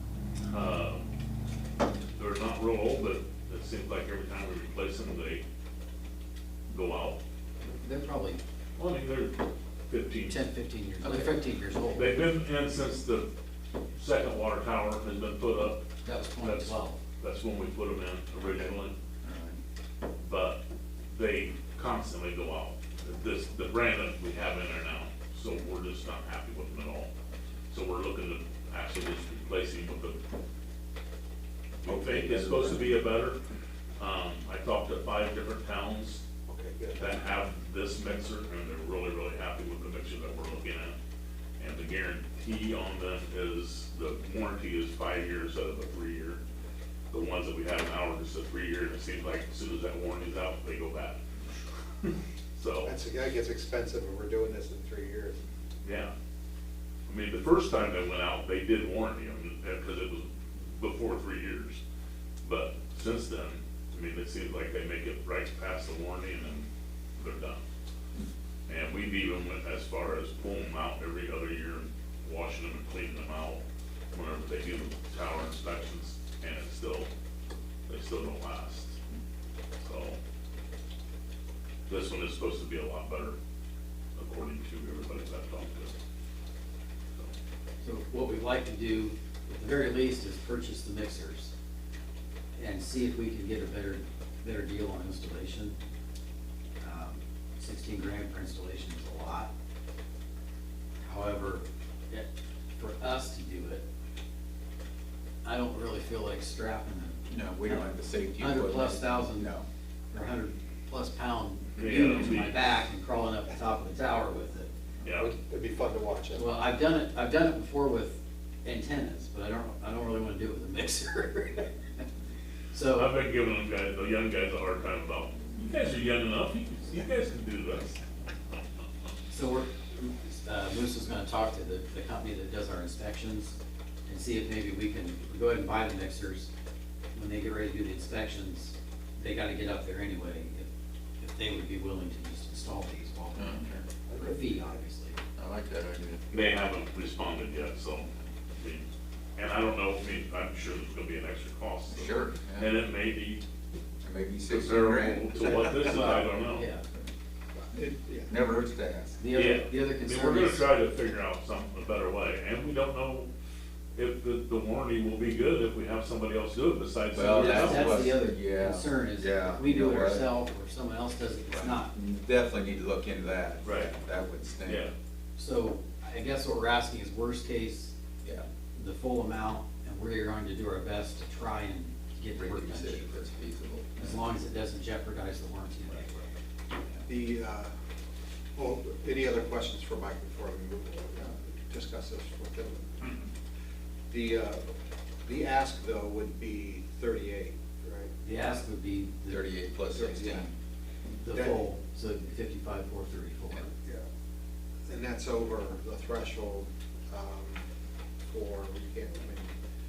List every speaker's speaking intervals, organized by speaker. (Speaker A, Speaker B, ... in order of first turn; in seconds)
Speaker A: 0.5-1.1, 2.1-5.4, 6.7-7.2, 8.8-9.3, 9.9-10.3, 11.9-13.3, 13.9-15.8, 16.4-18.9, 20.2-27.1, 27.7-30.1, 31.8-33.4, 34.0-36.2, 36.9-41.0, 41.6-46.4, 47.1-52.9, 55.8-56.1, 57.1-61.8, 62.4-67.6, 68.7-73.6, 74.1-77.1, 77.9-79.0, 79.8-80.2, 81.9-83.3, 84.2-85.9, 111.8-112.6, 115.0-115.3, 122.9-128.0, 146.3-148.1, 148.6-153.4, 154.5-156.7, 159.3-163.3, 163.9-168.0, 173.6-173.9, 174.6-174.9
Speaker B: 7.6-8.4, 10.3-12.1, 16.0-17.0, 87.8-91.5, 92.6-95.7, 96.8-99.5, 101.0-103.8, 105.4-107.8, 108.4-109.5, 110.1-114.7, 116.3-121.7, 122.7-123.1, 129.3-133.6, 134.1-136.5, 137.1-140.7, 141.2-145.2, 155.8-156.8, 159.2-160.7, 167.2-171.9, 175.3-177.9, 178.7-183.1, 184.0-186.3, 198.2-199.5, 201.1-203.7
Speaker C: 11.0-11.3, 18.4-19.6, 31.9-32.9, 107.3-109.6, 143.3-144.3, 145.3-146.2, 151.9-152.7, 154.0-156.3, 158.3-159.2, 167.1-170.3, 171.5-174.8, 182.3-184.2, 199.3-200.5
Speaker D: 36.5-37.2, 52.8-55.4, 115.1-116.5, 157.6-158.3, 187.0-187.7, 188.6-193.2, 194.1-194.6, 195.2-198.1, 199.9-200.4, 201.3-201.7, 204.9-207.6, 208.2-209.5